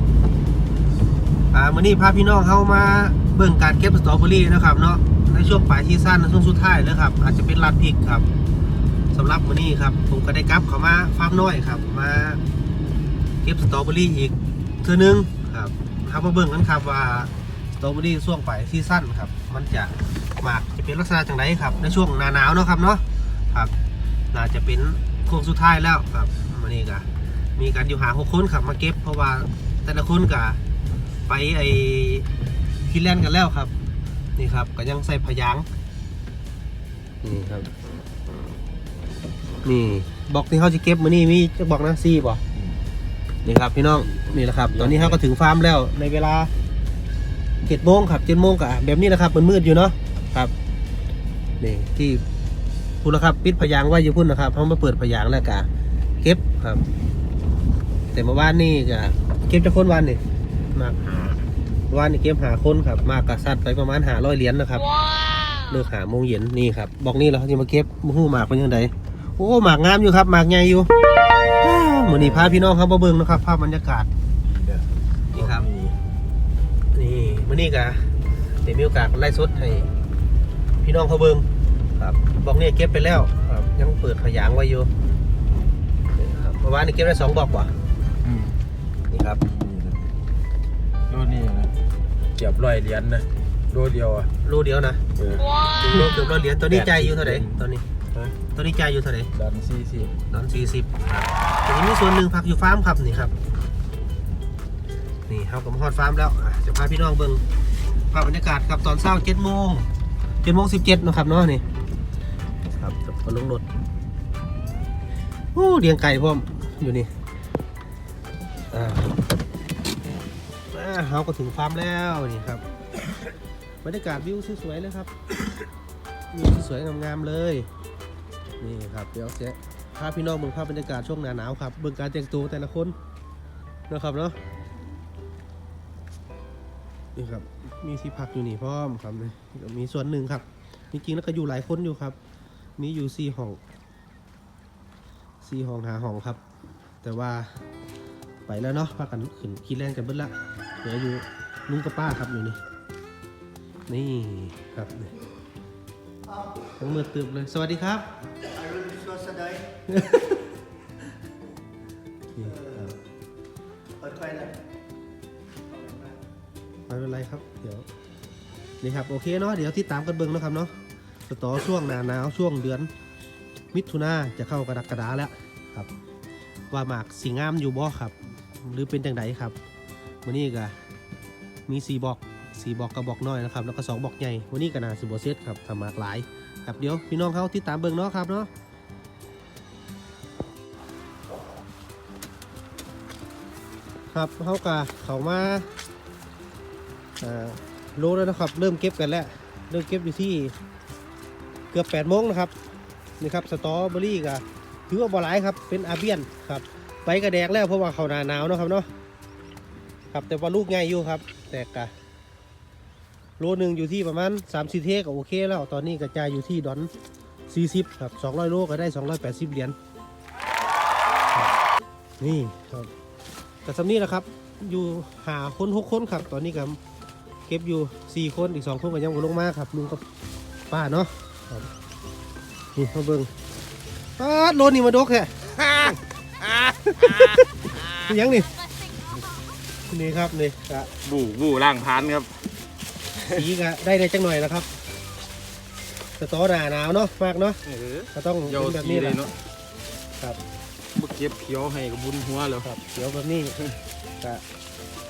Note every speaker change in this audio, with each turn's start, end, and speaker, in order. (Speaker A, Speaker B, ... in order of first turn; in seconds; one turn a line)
Speaker A: 1.5-8.3
Speaker A: 9.1-12.4
Speaker A: 13.4-23.7
Speaker A: 24.3-30.6
Speaker A: 31.3-32.3
Speaker A: 32.9-33.7
Speaker A: 34.4-35.7
Speaker A: 37.2-37.7
Speaker A: 39.6-42.4
Speaker A: 43.4-46.5
Speaker B: 44.7-45.2
Speaker A: 47.6-50.5
Speaker A: 51.6-52.2
Speaker A: 53.0-55.7
Speaker A: 56.2-56.8
Speaker A: 58.1-60.2
Speaker A: 60.7-61.1
Speaker A: 61.9-64.9
Speaker A: 65.5-70.9
Speaker A: 71.6-74.1
Speaker B: 72.1-72.5
Speaker B: 74.5-76.0
Speaker A: 75.3-75.7
Speaker A: 76.9-78.1
Speaker A: 78.7-79.9
Speaker A: 80.8-81.5
Speaker A: 82.0-84.9
Speaker A: 86.2-87.7
Speaker B: 88.2-88.6
Speaker A: 89.1-89.4
Speaker B: 89.4-90.0
Speaker B: 91.1-91.7
Speaker B: 92.4-94.3
Speaker A: 94.4-95.0
Speaker B: 95.2-95.6
Speaker A: 95.7-99.3
Speaker B: 96.7-97.6
Speaker B: 99.3-100.2
Speaker A: 100.3-103.3
Speaker A: 105.3-107.4
Speaker A: 108.1-109.9
Speaker A: 110.4-111.6
Speaker A: 112.8-113.7
Speaker A: 115.5-117.1
Speaker A: 118.7-119.2
Speaker A: 120.7-122.6
Speaker A: 123.8-125.1
Speaker A: 126.3-127.7
Speaker A: 128.6-133.0
Speaker A: 133.9-134.4
Speaker A: 137.2-142.2
Speaker A: 142.8-143.6
Speaker A: 145.4-146.4
Speaker A: 147.0-147.6
Speaker A: 148.5-152.6
Speaker A: 153.9-155.2
Speaker A: 156.8-158.1
Speaker C: 158.6-159.7
Speaker A: 159.9-160.5
Speaker A: 162.3-163.0
Speaker C: 164.0-164.6
Speaker C: 165.8-166.1
Speaker A: 166.9-167.9
Speaker A: 168.8-172.9
Speaker A: 173.7-175.9
Speaker A: 176.7-179.6
Speaker A: 180.2-180.8
Speaker A: 181.7-188.5
Speaker A: 194.1-195.7
Speaker A: 197.2-200.6
Speaker A: 201.7-202.5
Speaker A: 203.2-208.9
Speaker A: 210.1-211.9
Speaker A: 213.4-216.9
Speaker A: 217.5-219.8
Speaker A: 222.2-222.9
Speaker A: 223.7-226.8
Speaker A: 227.5-230.0
Speaker A: 230.7-231.7
Speaker A: 232.8-233.3
Speaker A: 234.2-238.6
Speaker B: 237.0-237.4
Speaker A: 239.9-240.9
Speaker B: 241.0-242.4
Speaker A: 243.3-244.8
Speaker A: 246.2-247.6
Speaker B: 247.7-249.4
Speaker A: 248.1-249.3
Speaker B: 250.9-252.7
Speaker A: 252.6-253.6